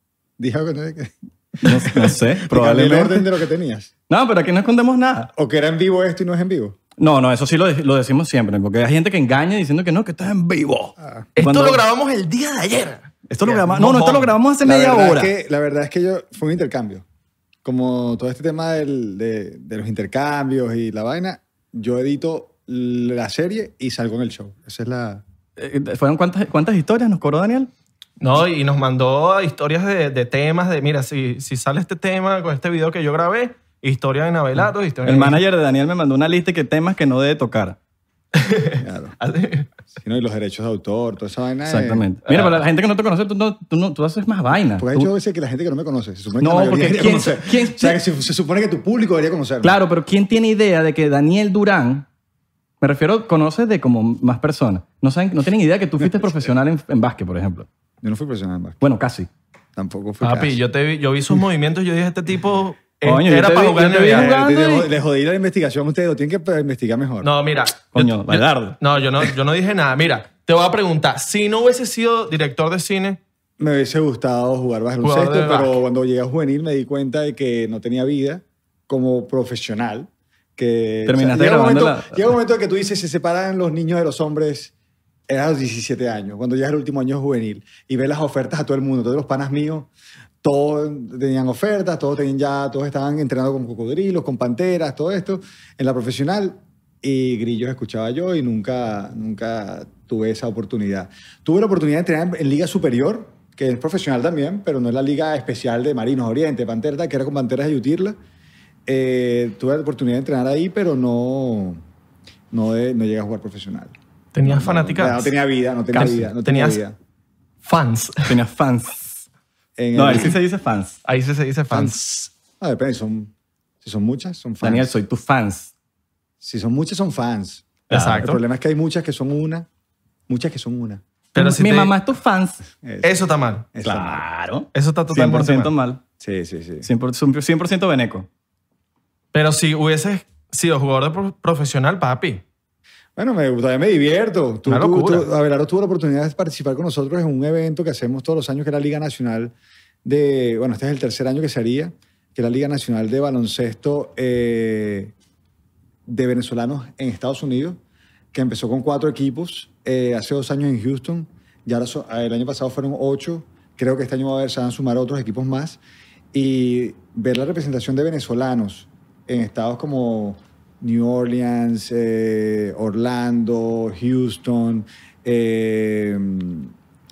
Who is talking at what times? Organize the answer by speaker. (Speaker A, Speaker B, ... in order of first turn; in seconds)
Speaker A: 0.4-3.9, 5.3-6.8, 11.0-11.3, 14.6-17.0, 17.6-25.2, 38.8-39.2, 40.0-42.1, 44.8-49.8, 58.0-58.8, 59.8-60.6, 64.1-67.3, 73.6-84.7, 85.3-89.9, 90.4-108.2, 108.9-111.8, 112.5-117.0, 119.8-120.4, 121.7-122.0, 122.6-123.3, 123.8-124.9, 126.4-129.7, 130.3-131.0, 132.8-133.2, 133.7-134.3, 136.2-136.9, 143.2-155.1, 156.1-157.8, 158.3-165.8, 166.3-176.7
Speaker B: 1.6-3.3, 4.1-5.3, 7.0-11.8, 13.3-15.3, 25.6-27.7, 35.0-37.8, 41.7-45.1, 46.4-48.0, 49.6-52.1, 52.8-57.7, 58.8-59.3, 63.0-64.9, 67.9-69.3, 81.1-82.2, 115.9-116.2, 118.3-119.2, 119.9-121.0, 124.6-125.7, 127.9-128.4, 131.4-132.6, 133.8-136.0, 136.8-138.3
Speaker C: 11.4-14.3, 28.2-35.4, 38.3-39.7, 42.3-42.6, 60.2-64.3, 67.2-73.2, 75.0-75.8, 114.3-115.3, 116.4-116.8, 117.6-118.4, 121.0-122.3, 127.9-128.4, 131.3-131.9, 133.0-133.7, 134.7-135.7, 139.3-142.4, 144.7-145.3